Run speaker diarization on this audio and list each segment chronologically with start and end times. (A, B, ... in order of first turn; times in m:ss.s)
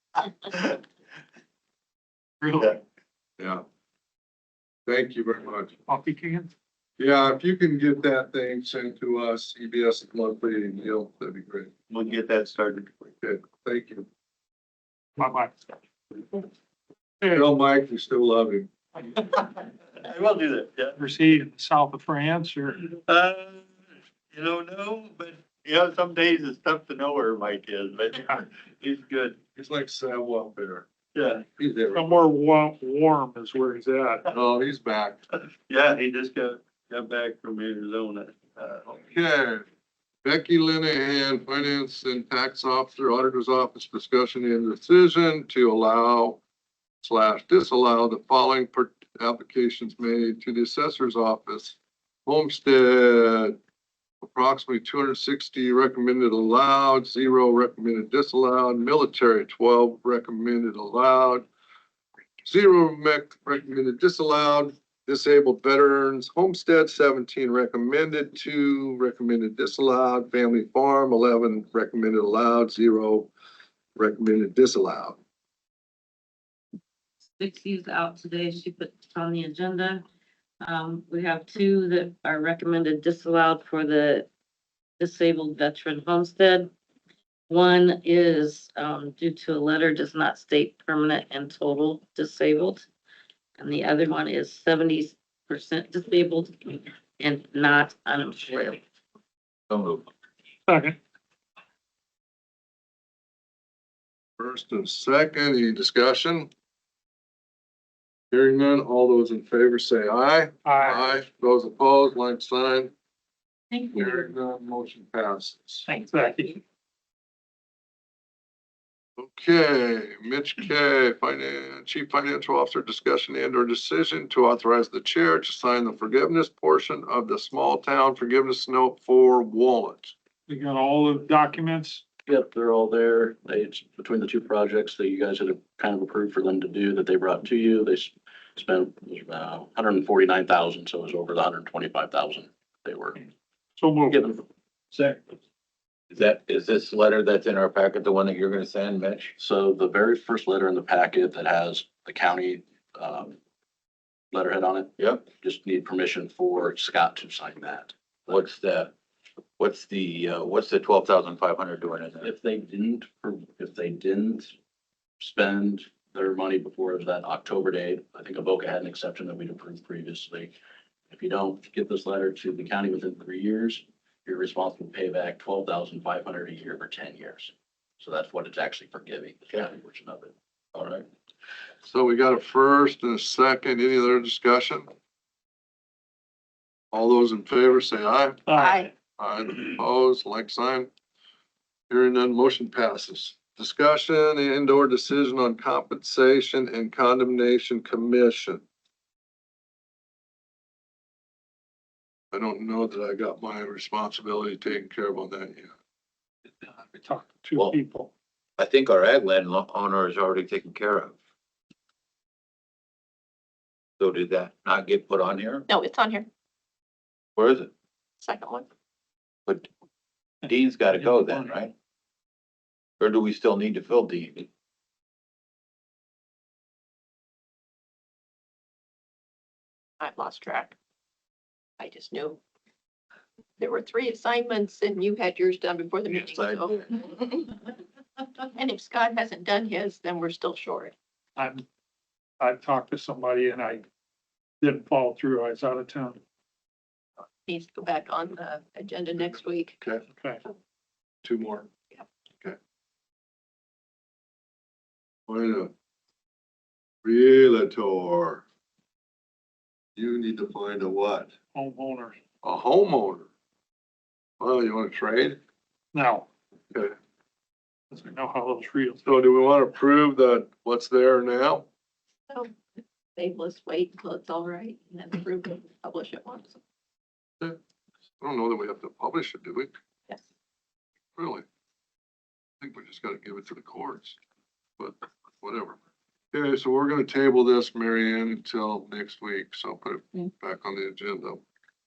0:02.4-0:02.7 A
0:04.9-0:05.7 B
0:05.9-0:06.5 A
0:07.0-0:11.7 B
0:11.9-0:13.0 C
0:13.2-0:14.1 B
0:15.2-0:15.5 A
0:17.2-0:17.5 A
0:17.3-0:18.7 B
0:19.2-0:21.0 C
0:21.0-0:22.8 A
0:22.8-0:23.7 C
0:24.3-0:29.4 C
0:29.6-0:30.9 B
0:31.2-0:31.4 C
0:31.6-0:32.1 B
0:31.9-0:34.2 A
0:34.3-0:35.2 B
0:35.7-0:39.0 C
0:39.1-0:39.7 B
0:40.2-0:46.4 B
0:47.0-0:53.6 B
0:54.2-1:01.5 B
1:02.4-1:13.3 B
1:14.0-1:15.2 B
1:17.3-1:20.0 D
1:20.6-1:24.3 D
1:25.0-1:26.7 D
1:27.5-1:32.9 D
1:33.6-1:38.8 D
1:39.7-1:40.0 E
1:40.7-1:41.0 A
1:44.4-1:46.5 B
1:48.3-1:52.9 B
1:50.6-1:51.1 A
1:53.7-1:54.2 F
1:53.9-1:55.9 B
1:55.9-1:56.6 F
1:55.9-1:56.6 A
1:59.2-2:10.1 B
2:10.5-2:12.0 A
2:12.3-2:23.3 G
2:23.8-2:24.4 A
2:24.1-2:24.4 G
2:26.1-2:29.3 E
2:29.4-2:33.4 G
2:34.3-2:38.4 G
2:35.0-2:35.2 E
2:38.3-2:38.9 E
2:39.6-2:42.3 E
2:42.2-2:44.5 G
2:45.2-2:50.5 G
2:51.1-3:00.3 G
3:00.8-3:01.0 E
3:01.8-3:04.9 B
3:06.9-3:08.4 B
3:08.5-3:08.9 A
3:08.6-3:08.9 F
3:09.2-3:10.9 B
3:11.9-3:18.6 B
3:22.3-3:25.7 B
3:26.6-3:28.1 A
3:28.6-3:31.2 E
3:34.0-3:35.7 E
3:35.7-3:36.3 F
3:37.4-3:37.7 E
3:38.2-3:38.7 F
3:40.4-3:41.7 E
3:40.9-3:41.5 A
3:43.0-3:44.5 E
3:50.0-3:50.8 F
3:51.8-3:52.4 F
3:53.6-3:57.6 F
3:56.1-3:56.8 E
3:58.5-4:00.9 F
4:01.4-4:01.6 A
4:02.4-4:03.8 A
4:04.6-4:06.2 A
4:07.4-4:09.8 F
4:10.2-4:10.4 A
4:11.2-4:11.7 B
4:15.3-4:15.7 B
4:17.0-4:18.4 B
4:20.0-4:21.3 B
4:21.5-4:22.2 A
4:22.4-4:23.3 B
4:24.4-4:25.4 B
4:25.9-4:26.3 A
4:27.9-4:29.0 A
4:29.0-4:31.7 B
4:33.2-4:36.6 F
4:38.2-4:39.7 B
4:41.2-4:41.4 B
4:42.6-4:44.2 B
4:44.8-4:45.8 B
4:46.3-4:51.4 B